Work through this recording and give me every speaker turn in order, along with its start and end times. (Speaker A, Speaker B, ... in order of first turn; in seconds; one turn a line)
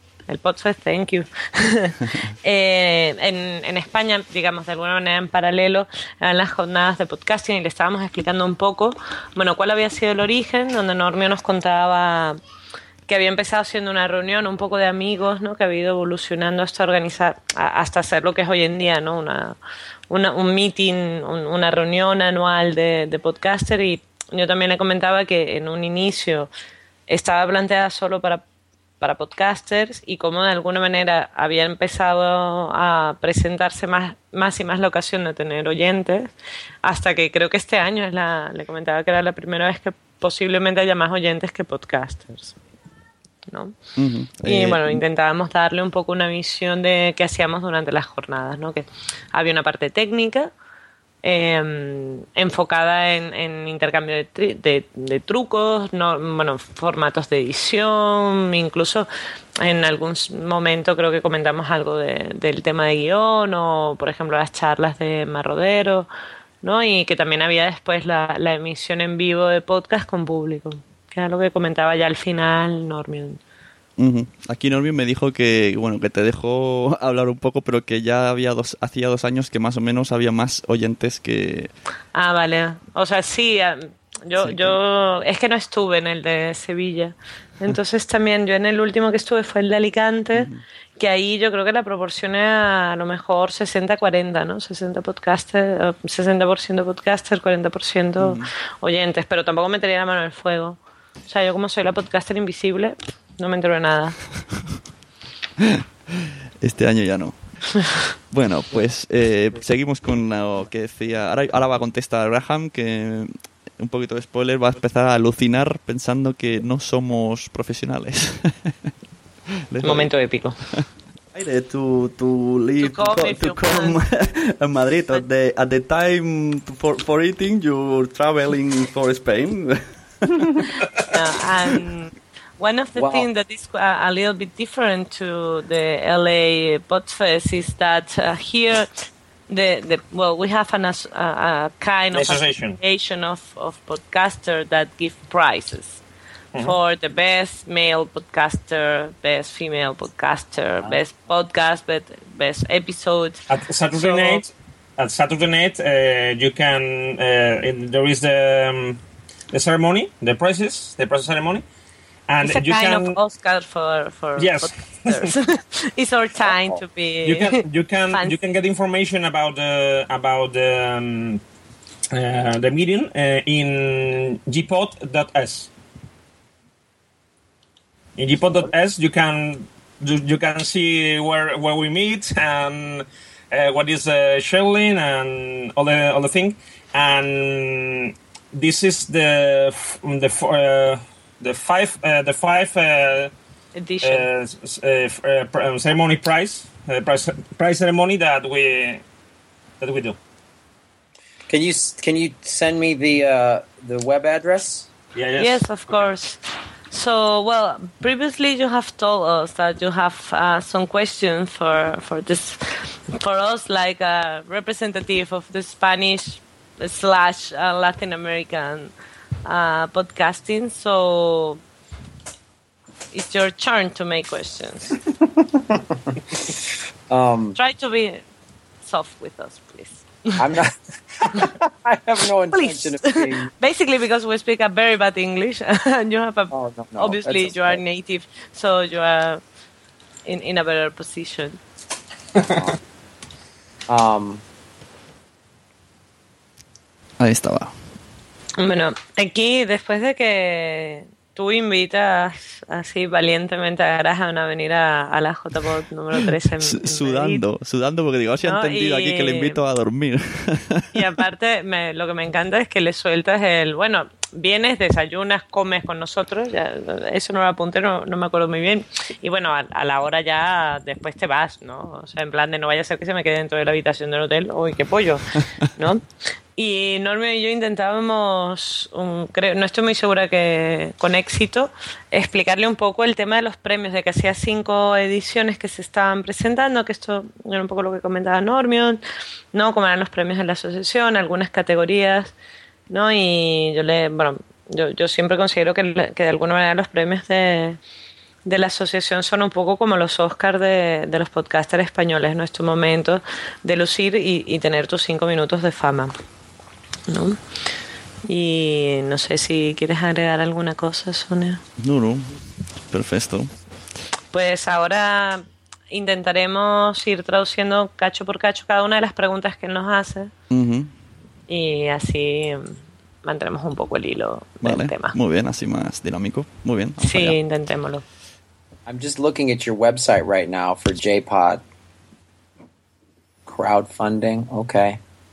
Speaker A: 0.3-12.4
Speaker A: 13.1-19.6
Speaker A: 20.1-26.5
Speaker A: 27.1-28.4
Speaker A: 29.0-36.3
Speaker A: 36.8-42.5
Speaker A: 43.5-43.7
Speaker B: 44.0-45.0
Speaker A: 44.4-50.5
Speaker A: 51.2-59.1
Speaker A: 59.6-66.1
Speaker A: 66.6-73.4
Speaker B: 74.0-81.7
Speaker A: 82.1-104.2
Speaker B: 84.4-84.8
Speaker B: 90.3-90.6
Speaker B: 98.2-98.5
Speaker B: 105.6-107.4
Speaker B: 108.3-118.7
Speaker B: 119.7-120.1
Speaker A: 119.8-120.6
Speaker B: 120.7-130.6
Speaker A: 122.8-124.0
Speaker A: 131.0-138.9
Speaker C: 133.0-133.2
Speaker A: 139.5-146.0
Speaker D: 142.1-142.8
Speaker A: 146.6-154.4
Speaker D: 153.5-159.0
Speaker D: 159.5-161.6
Speaker D: 162.3-163.2
Speaker A: 162.4-167.5
Speaker D: 164.4-165.3
Speaker D: 167.2-171.4
Speaker D: 172.1-175.7
Speaker D: 178.2-193.3
Speaker A: 193.8-194.3
Speaker D: 194.0-199.0
Speaker D: 199.8-200.2
Speaker C: 201.5-204.9
Speaker D: 205.1-206.1
Speaker A: 205.4-218.9
Speaker A: 219.4-221.6
Speaker A: 223.1-225.0
Speaker C: 227.1-227.6
Speaker A: 227.6-228.2
Speaker A: 228.8-230.4
Speaker C: 230.4-233.5
Speaker A: 232.5-239.4
Speaker C: 236.5-237.8
Speaker A: 240.2-241.6
Speaker C: 242.4-242.8
Speaker C: 243.9-244.4
Speaker B: 247.2-247.7
Speaker A: 248.6-257.4
Speaker B: 256.6-260.9
Speaker A: 258.4-259.6
Speaker A: 260.9-276.0
Speaker A: 276.6-289.0
Speaker A: 289.5-292.3
Speaker A: 292.9-297.8
Speaker A: 298.4-306.1
Speaker A: 307.1-307.4
Speaker A: 308.2-311.6
Speaker B: 311.8-313.5
Speaker A: 314.3-320.3
Speaker B: 320.5-320.9
Speaker A: 321.5-325.1
Speaker B: 324.6-327.4
Speaker A: 327.0-328.0
Speaker C: 328.9-331.6
Speaker C: 333.5-335.0